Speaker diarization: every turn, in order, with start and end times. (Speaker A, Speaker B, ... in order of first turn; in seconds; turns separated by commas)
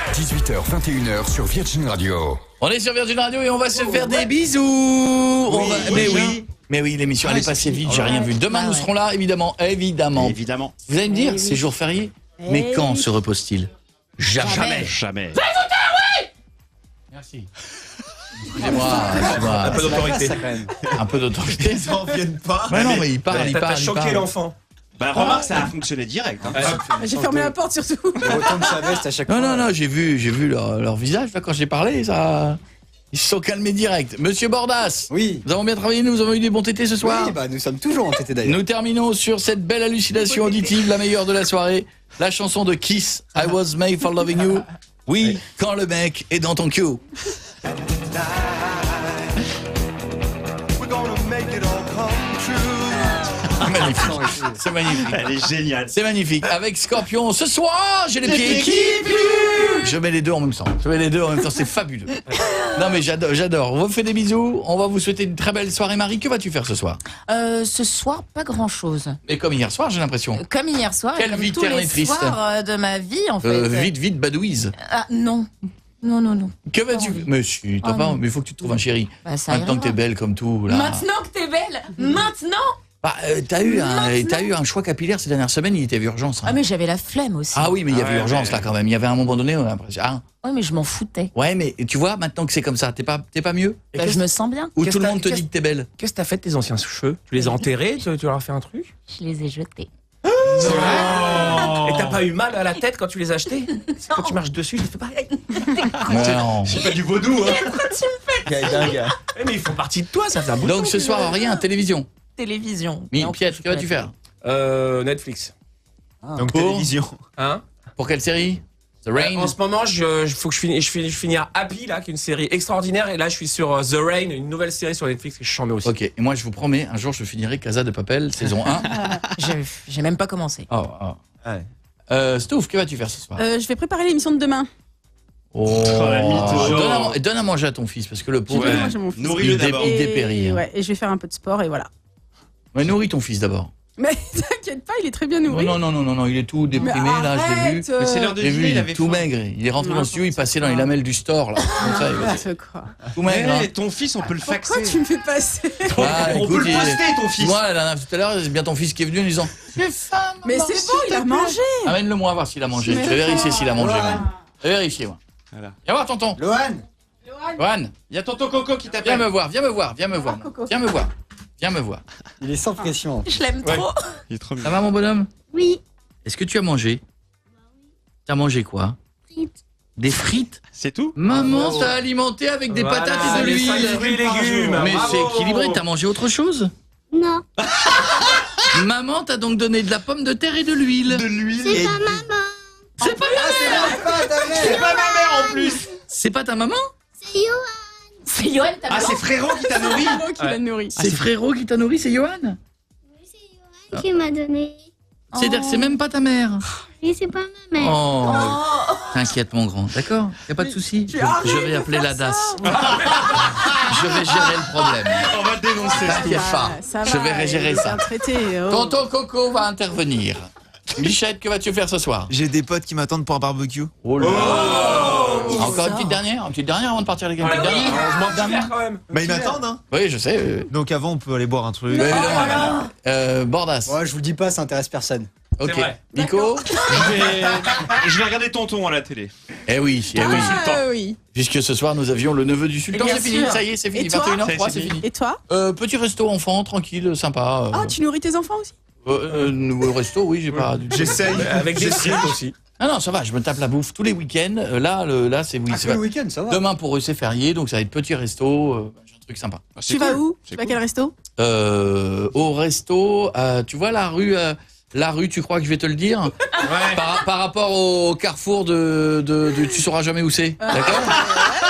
Speaker A: 0.1-2.4, Speaker B: 2.6-16.3, Speaker C: 5.5-6.4, Speaker D: 5.6-6.3, Speaker C: 7.2-8.2, Speaker E: 7.9-8.9, Speaker D: 10.1-10.7, Speaker F: 12.4-13.1, Speaker D: 14.4-15.4, Speaker E: 14.4-14.9, Speaker B: 17.1-17.5, Speaker B: 18.5-19.9, Speaker G: 19.3-20.7, Speaker C: 19.5-20.3, Speaker H: 19.5-20.4, Speaker B: 20.9-22.0, Speaker C: 21.6-23.0, Speaker B: 22.7-24.3, Speaker H: 23.3-24.5, Speaker D: 25.0-26.8, Speaker H: 26.5-26.8, Speaker F: 26.9-28.6, Speaker G: 28.2-29.7, Speaker B: 29.3-32.6, Speaker B: 33.1-37.4, Speaker G: 35.1-35.4, Speaker G: 37.0-38.6, Speaker B: 38.4-47.0, Speaker G: 50.8-51.6, Speaker B: 53.6-62.2, Speaker D: 54.9-55.9, Speaker C: 58.3-59.6, Speaker B: 62.7-67.0, Speaker E: 67.3-69.2, Speaker B: 69.2-70.4, Speaker E: 70.3-73.9, Speaker B: 71.1-72.4, Speaker B: 73.4-74.7, Speaker E: 74.8-75.5, Speaker E: 76.0-77.2, Speaker B: 76.7-81.1, Speaker E: 77.8-78.2, Speaker E: 79.2-80.0, Speaker E: 80.7-82.8, Speaker B: 83.0-86.6, Speaker E: 83.6-84.5, Speaker E: 86.4-87.8, Speaker B: 87.5-90.2, Speaker D: 87.9-88.6, Speaker E: 90.4-91.3, Speaker B: 91.3-93.9, Speaker E: 93.9-95.2, Speaker B: 94.8-95.9, Speaker H: 94.8-95.4, Speaker H: 96.0-98.9, Speaker E: 97.3-97.6, Speaker E: 99.1-99.9, Speaker H: 100.4-104.9, Speaker C: 100.6-101.6, Speaker E: 100.8-101.8, Speaker E: 103.9-107.0, Speaker B: 106.1-106.8, Speaker H: 106.2-107.1, Speaker C: 106.8-107.7, Speaker E: 107.5-109.0, Speaker C: 108.4-109.1, Speaker H: 109.3-110.8, Speaker B: 110.6-112.1, Speaker E: 110.9-111.5, Speaker E: 112.4-114.0, Speaker B: 113.1-114.1, Speaker H: 114.4-115.5, Speaker G: 116.2-116.5, Speaker C: 116.3-117.2, Speaker B: 116.5-116.9, Speaker H: 117.4-117.6, Speaker B: 118.0-119.5, Speaker H: 119.1-125.9, Speaker B: 125.8-128.9, Speaker E: 128.9-130.7, Speaker B: 130.7-131.2, Speaker B: 132.1-133.4, Speaker F: 133.4-134.7, Speaker B: 135.5-140.6, Speaker D: 135.7-137.0, Speaker H: 136.3-137.1, Speaker D: 138.5-139.9, Speaker F: 138.5-141.9, Speaker B: 142.7-143.7, Speaker F: 144.0-145.8, Speaker B: 145.5-152.4, Speaker F: 146.8-148.4, Speaker D: 148.0-149.3, Speaker F: 149.8-150.9, Speaker F: 151.8-152.9, Speaker B: 153.1-153.7, Speaker D: 153.2-155.0, Speaker F: 154.4-156.4, Speaker D: 155.9-157.6, Speaker B: 155.9-165.2, Speaker F: 160.4-161.9, Speaker F: 162.8-164.1, Speaker G: 163.8-164.2, Speaker B: 165.8-166.4, Speaker C: 166.4-166.8, Speaker F: 167.3-167.6, Speaker B: 167.6-167.9, Speaker D: 168.1-169.3, Speaker B: 169.0-172.0, Speaker F: 170.2-170.7, Speaker G: 172.4-173.3, Speaker E: 173.2-174.2, Speaker D: 174.3-174.8, Speaker B: 174.6-175.3, Speaker B: 176.2-177.0, Speaker B: 178.2-179.0, Speaker B: 179.9-180.6, Speaker D: 180.7-181.2, Speaker B: 181.1-184.1, Speaker G: 181.3-181.9, Speaker H: 182.7-185.8, Speaker C: 183.2-185.2, Speaker B: 184.7-186.7, Speaker I: 187.1-187.4, Speaker B: 188.7-191.3, Speaker C: 191.1-192.3, Speaker I: 191.6-192.4, Speaker B: 193.0-193.9, Speaker C: 193.3-194.8, Speaker G: 193.8-194.8, Speaker D: 194.4-195.8, Speaker B: 196.1-196.9, Speaker I: 197.3-197.6, Speaker E: 198.2-199.7, Speaker D: 198.9-200.2, Speaker F: 199.7-201.0, Speaker B: 201.0-202.6, Speaker I: 203.9-204.7, Speaker E: 205.3-205.9, Speaker B: 205.3-206.6, Speaker I: 207.0-207.9, Speaker B: 207.8-212.9, Speaker E: 208.2-209.2, Speaker F: 210.6-212.7, Speaker H: 212.7-213.4, Speaker B: 213.8-215.3, Speaker D: 215.2-216.5, Speaker F: 216.0-218.9, Speaker B: 216.0-218.1, Speaker B: 218.7-222.3, Speaker C: 222.3-224.6, Speaker B: 224.0-228.7, Speaker H: 224.2-225.8, Speaker E: 225.6-226.2, Speaker H: 227.4-229.1, Speaker C: 229.1-229.8, Speaker B: 229.9-230.7, Speaker C: 230.7-232.6, Speaker B: 231.9-233.9, Speaker F: 231.9-232.8, Speaker H: 232.3-232.7, Speaker G: 233.9-235.3, Speaker B: 235.6-236.8, Speaker H: 235.6-236.0, Speaker F: 236.1-236.8, Speaker D: 237.1-239.3, Speaker B: 239.7-240.6, Speaker F: 240.1-241.2, Speaker D: 240.2-240.7, Speaker B: 241.3-247.9, Speaker E: 242.9-243.6, Speaker F: 243.9-245.4, Speaker D: 244.4-245.0, Speaker F: 247.7-248.7, Speaker B: 249.0-251.5, Speaker C: 250.9-252.3, Speaker H: 251.3-252.5, Speaker B: 252.8-259.7, Speaker G: 255.7-256.6, Speaker D: 259.8-260.8, Speaker F: 259.9-261.1, Speaker B: 261.4-266.3, Speaker H: 266.6-267.0, Speaker B: 266.9-271.2, Speaker F: 270.6-271.4